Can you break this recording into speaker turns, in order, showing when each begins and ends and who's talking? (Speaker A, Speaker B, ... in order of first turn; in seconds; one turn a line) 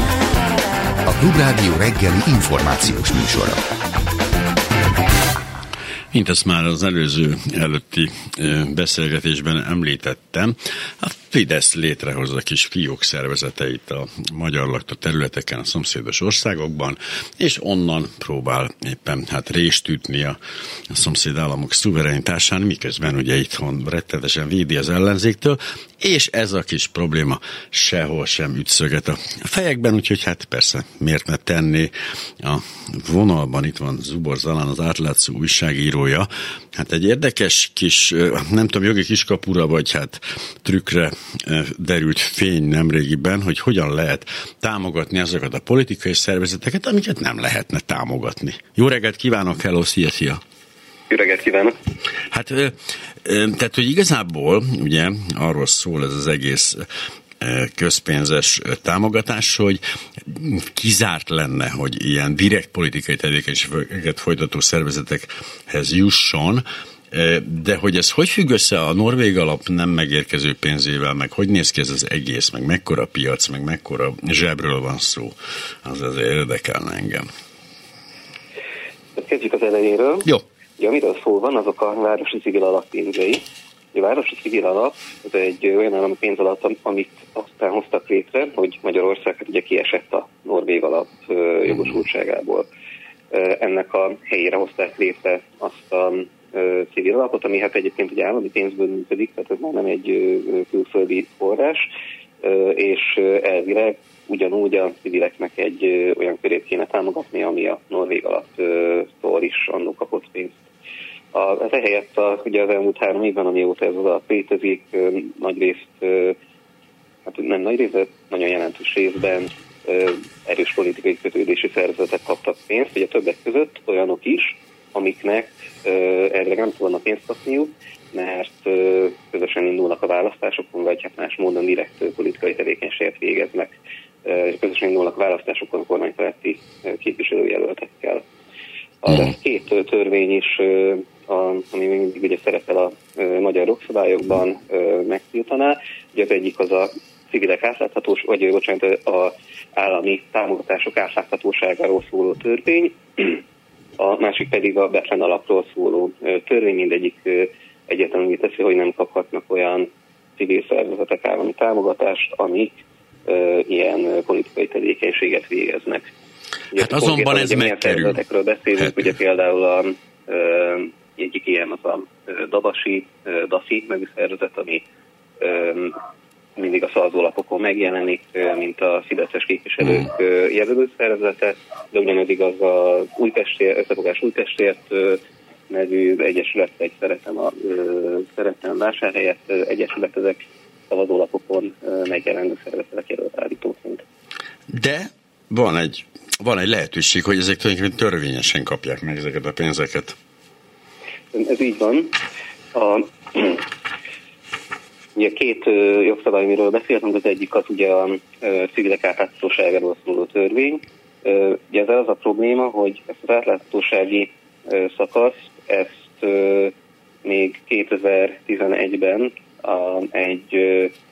Speaker A: 1.1-3.6
Speaker B: 6.1-20.4
Speaker B: 20.9-50.4
Speaker C: 51.1-51.7
Speaker B: 52.3-56.8
Speaker B: 57.4-75.3
Speaker B: 75.8-77.2
Speaker C: 79.1-92.7
Speaker C: 93.3-101.8
Speaker C: 102.4-110.6
Speaker C: 111.3-116.3
Speaker C: 117.2-138.2
Speaker C: 139.0-153.4
Speaker C: 154.0-166.1
Speaker C: 166.7-174.8
Speaker B: 166.8-168.2
Speaker C: 175.4-175.9
Speaker C: 176.6-194.0
Speaker B: 194.7-200.2
Speaker C: 201.3-202.2
Speaker C: 202.7-203.6
Speaker C: 205.1-216.7
Speaker C: 217.2-220.9